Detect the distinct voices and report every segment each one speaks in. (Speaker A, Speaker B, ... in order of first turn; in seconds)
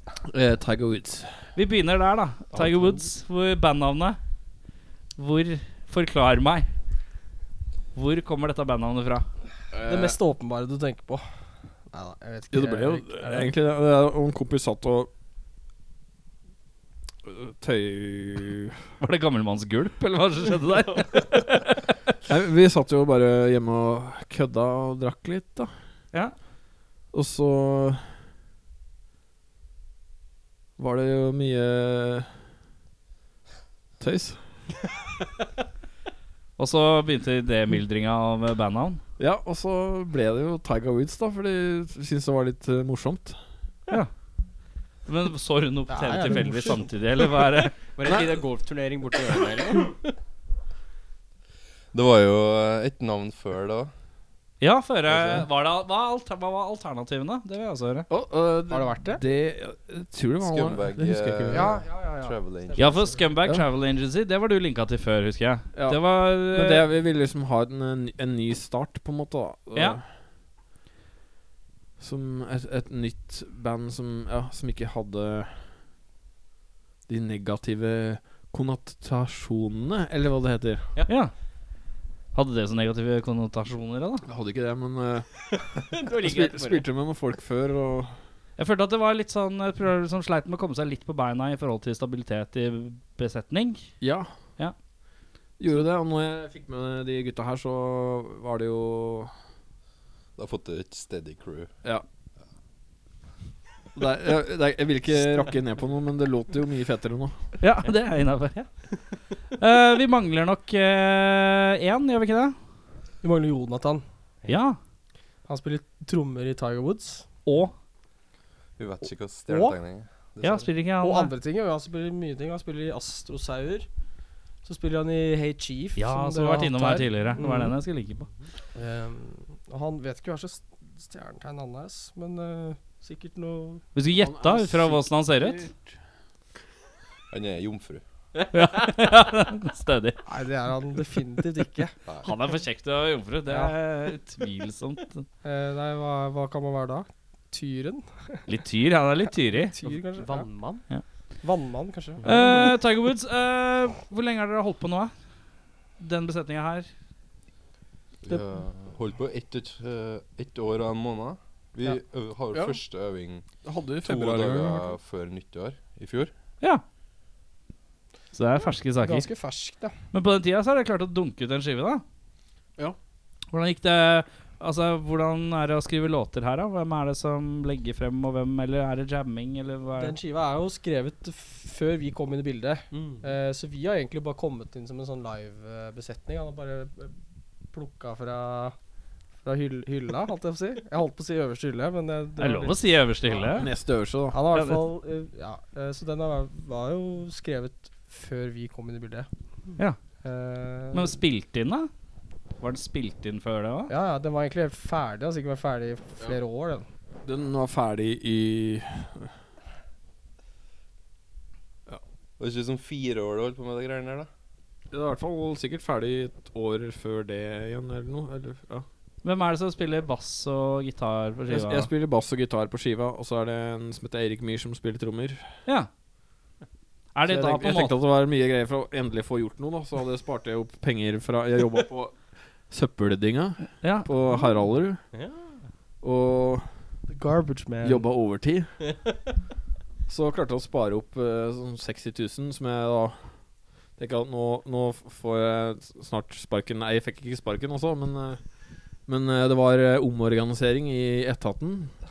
Speaker A: 0.2-1.5, 9.7-10.2, 12.5-15.1, 17.2-18.8, 22.2-25.7, 27.1-28.1, 30.8-32.3, 34.0-34.4, 39.2-43.4, 58.1-61.8, 65.7-70.0, 72.0-75.7, 77.1-80.9, 84.2-88.2, 94.0-94.3, 95.6-99.3, 103.9-107.5, 134.1-136.0, 162.5-162.8, 163.6-164.9, 193.6-194.4, 207.2-209.3, 214.9-218.9, 221.5-225.6, 227.3-235.1, 236.0-236.8, 237.8-238.9, 240.1-252.0
Speaker B: 1.5-4.2, 5.2-6.7, 7.9-9.2, 19.0-21.8, 36.6-39.0, 45.0-47.8, 54.6-58.1, 62.8-66.9, 81.1-81.3, 82.3-84.2, 88.6-93.9, 107.6-108.8, 109.6-112.5, 114.5-114.8, 117.5-117.7, 120.4-121.3, 126.0-128.3, 133.9-135.7, 138.5-140.2, 142.2-145.3, 148.5-149.8, 152.2-155.1, 156.0-156.9, 168.3-169.3, 170.1-172.0, 173.5-180.2, 192.4-193.7, 194.5-194.8, 200.9-201.9, 202.6-203.9, 219.2-221.9, 227.1-227.9, 233.8-234.1
Speaker C: 9.8-11.2, 11.9-13.5, 45.9-46.9, 58.7-59.2, 61.5-63.3, 113.2-114.0, 115.5-117.3, 119.5-119.7, 121.0-123.9, 124.6-127.7, 128.7-133.8, 140.2-142.0, 143.5-143.7, 145.4-148.4, 149.5-150.5, 151.4-152.7, 169.0-169.9, 180.0-187.2, 187.7-188.8, 189.4-193.6, 194.3-199.3, 200.2-201.2, 203.9-206.8, 237.1-238.1
Speaker D: 47.9-49.9, 85.6-86.8, 150.1-150.8, 152.2-152.7, 182.9-183.3, 235.1-235.6
Speaker E: 51.9-53.9, 60.4-63.0, 100.3-101.7, 118.8-120.7, 137.3-138.0, 158.2-163.5, 164.0-166.3, 212.4-214.3